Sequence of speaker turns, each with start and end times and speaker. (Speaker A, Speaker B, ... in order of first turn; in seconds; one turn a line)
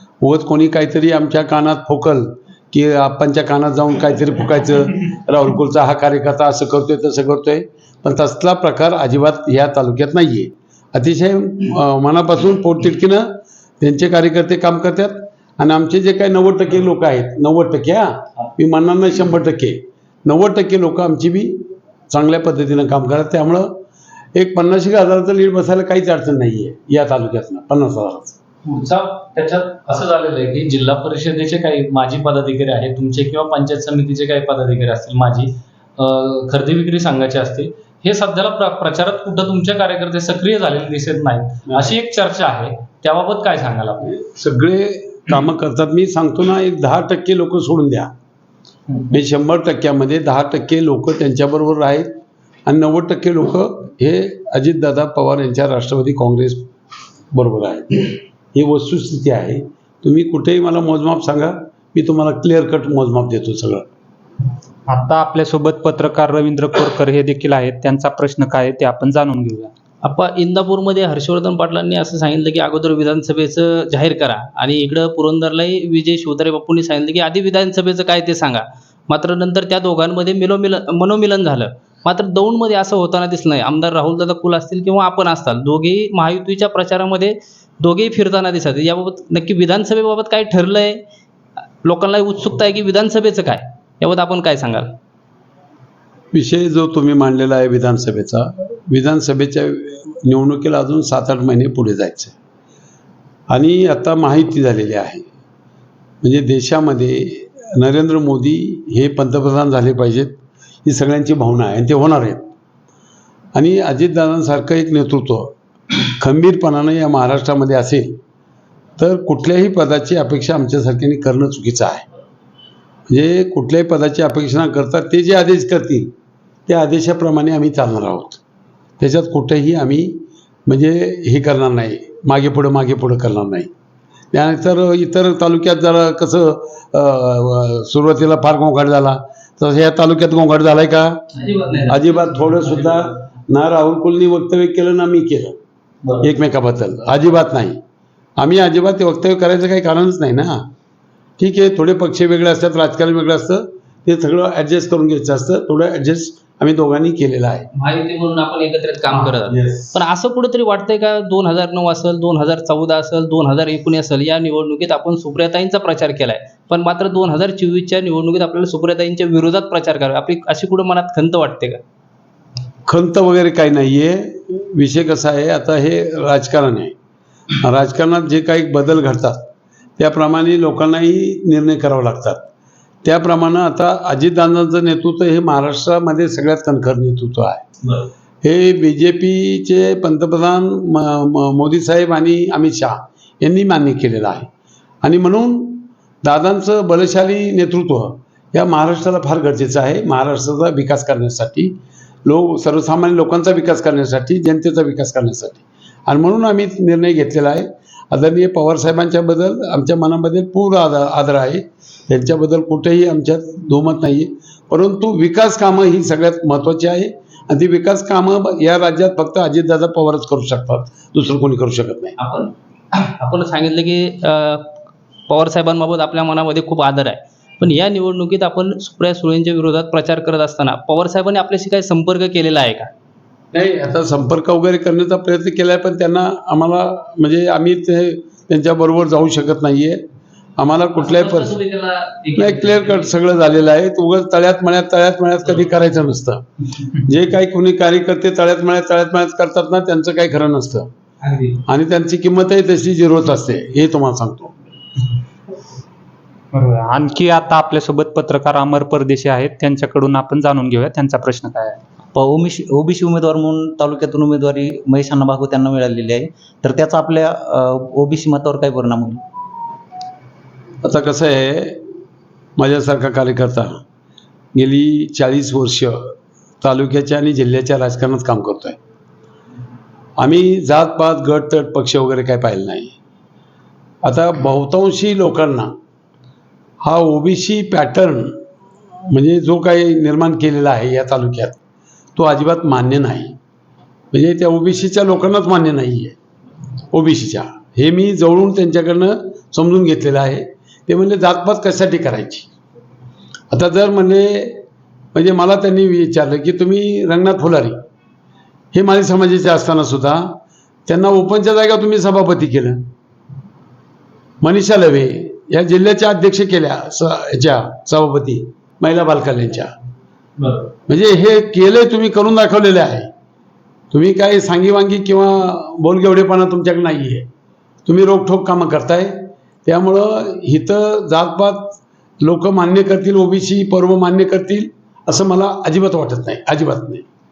Speaker A: 0.2-23.8
Speaker A: 24.4-28.4
Speaker B: 28.6-44.1
Speaker A: 41.7-42.0
Speaker A: 44.0-48.1
Speaker A: 49.1-52.1
Speaker A: 52.6-56.7
Speaker A: 57.3-63.9
Speaker C: 64.9-69.7
Speaker D: 70.0-91.0
Speaker D: 91.8-95.0
Speaker A: 96.3-102.3
Speaker A: 103.5-105.2
Speaker A: 106.2-112.5
Speaker A: 113.5-118.2
Speaker A: 119.0-122.0
Speaker A: 123.1-126.1
Speaker A: 126.7-128.4
Speaker A: 129.0-133.7
Speaker A: 134.3-141.2
Speaker E: 141.4-142.0
Speaker A: 141.9-145.6
Speaker A: 146.2-147.8
Speaker A: 148.4-150.7
Speaker A: 151.4-157.7
Speaker D: 157.8-171.8
Speaker A: 159.1-160.0
Speaker A: 172.9-176.9
Speaker A: 177.6-179.4
Speaker A: 180.0-182.4
Speaker A: 183.0-187.6
Speaker A: 188.4-194.5
Speaker A: 195.0-222.1
Speaker D: 222.2-224.7
Speaker D: 225.3-232.9
Speaker A: 233.5-240.0
Speaker A: 240.6-241.6
Speaker D: 241.0-242.7
Speaker A: 242.3-250.9
Speaker B: 242.4-242.9
Speaker D: 251.2-251.6
Speaker A: 251.7-254.6
Speaker C: 256.5-261.8
Speaker E: 262.1-269.2
Speaker A: 270.8-271.8
Speaker A: 272.6-273.8
Speaker A: 274.5-278.8
Speaker A: 280.2-282.9
Speaker A: 284.0-285.7
Speaker A: 286.8-288.4
Speaker A: 289.1-291.6
Speaker A: 292.1-293.4
Speaker A: 294.1-296.1
Speaker A: 296.9-302.5
Speaker A: 303.5-304.6
Speaker A: 305.1-307.8
Speaker A: 308.7-312.8
Speaker A: 314.4-319.7
Speaker B: 320.4-320.7
Speaker A: 320.9-323.1
Speaker A: 323.9-327.2
Speaker A: 327.9-337.0